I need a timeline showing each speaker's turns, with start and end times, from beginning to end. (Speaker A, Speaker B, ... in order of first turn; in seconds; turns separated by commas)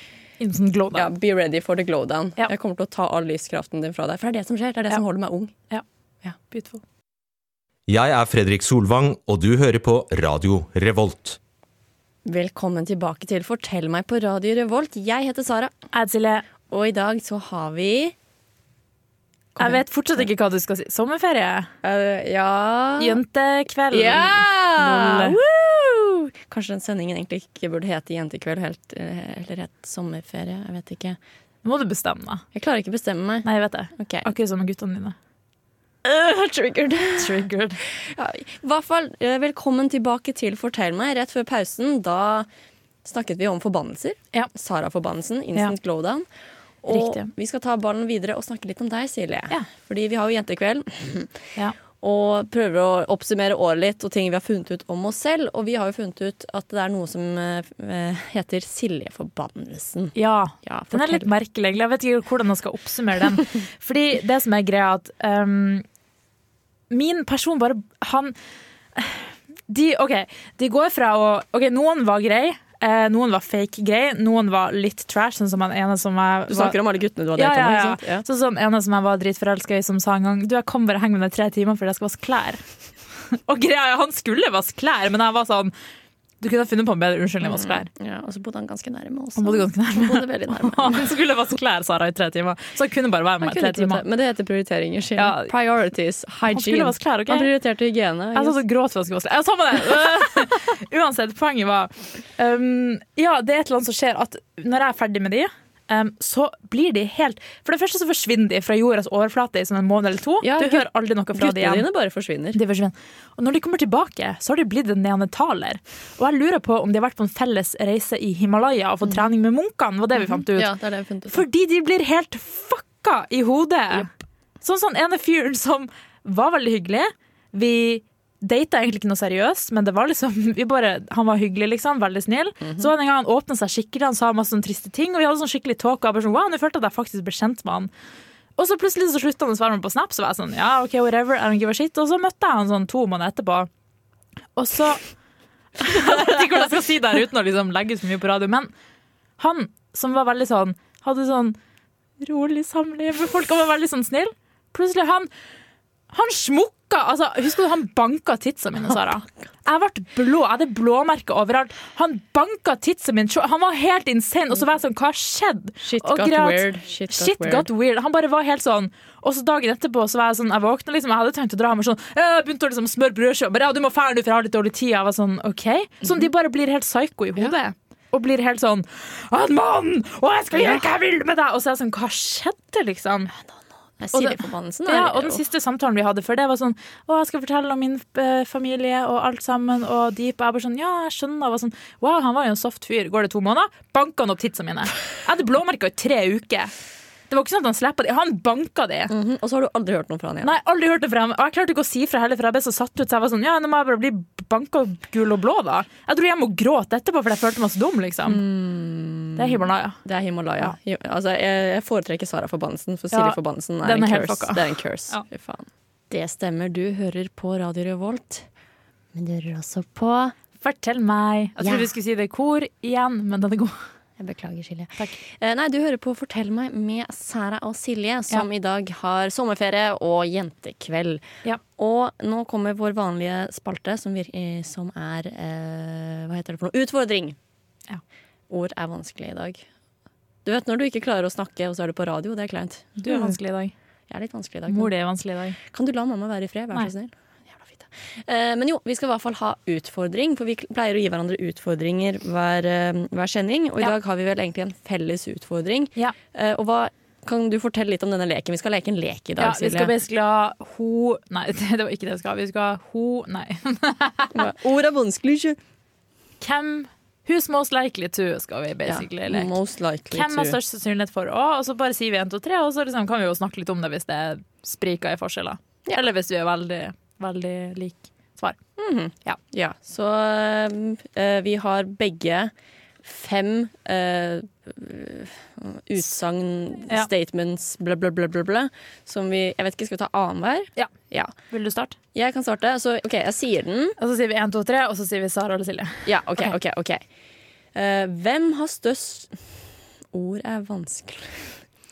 Speaker A: 0.4-1.1, Speaker B: 0.9-5.5, Speaker A: 6.5-6.8, Speaker C: 7.9-11.4, Speaker B: 12.2-15.7, Speaker A: 15.9-16.5, Speaker B: 16.7-18.1, Speaker B: 19.6-20.3, Speaker A: 19.6-21.7, Speaker B: 21.8-23.2, Speaker A: 23.0-25.4, Speaker B: 23.9-31.2, Speaker A: 31.6-32.4, Speaker B: 32.5-34.3, Speaker A: 33.5-35.1, Speaker B: 36.0-37.4, Speaker A: 37.2-37.8, Speaker B: 37.9-42.5, Speaker B: 43.0-46.2, Speaker B: 46.8-51.4, Speaker A: 46.9-47.3, Speaker B: 52.0-61.3, Speaker A: 60.2-65.8, Speaker A: 66.9-68.3, Speaker A: 69.0-76.8, Speaker B: 76.5-78.2, Speaker A: 77.3-82.6, Speaker A: 83.3-85.7, Speaker A: 86.4-87.9, Speaker B: 87.4-91.0, Speaker A: 89.4-94.0, Speaker B: 93.4-98.6, Speaker A: 95.2-95.5, Speaker A: 96.5-97.5, Speaker A: 98.3-111.9, Speaker B: 110.4-112.6, Speaker A: 112.5-120.7, Speaker B: 120.2-121.4, Speaker A: 121.3-124.1, Speaker A: 124.6-137.9, Speaker A: 138.6-143.7, Speaker A: 144.6-145.0, Speaker A: 145.8-148.7, Speaker A: 149.4-151.6, Speaker A: 152.2-155.3, Speaker A: 156.1-183.3, Speaker B: 165.8-167.7, Speaker B: 180.5-180.9, Speaker B: 184.0-185.4, Speaker A: 184.1-196.7, Speaker A: 197.3-199.1, Speaker B: 199.1-200.5, Speaker A: 200.4-208.4, Speaker B: 208.3-218.5, Speaker A: 209.4-210.0, Speaker A: 213.1-215.2, Speaker B: 219.1-220.3, Speaker A: 220.6-223.8, Speaker B: 221.6-221.9, Speaker B: 224.2-231.2, Speaker B: 231.8-237.4, Speaker B: 238.5-239.6, Speaker B: 240.4-243.4, Speaker A: 243.0-243.7, Speaker B: 244.1-244.9, Speaker A: 244.7-245.6, Speaker B: 245.7-259.9, Speaker A: 259.4-264.4, Speaker B: 264.3-265.6, Speaker A: 266.4-269.5, Speaker B: 268.9-270.6, Speaker A: 270.1-278.6, Speaker B: 278.8-282.5, Speaker B: 283.0-291.3, Speaker A: 291.5-292.0, Speaker B: 292.1-294.0, Speaker A: 294.0-296.5, Speaker B: 296.1-297.0, Speaker B: 297.8-299.4, Speaker B: 300.1-301.6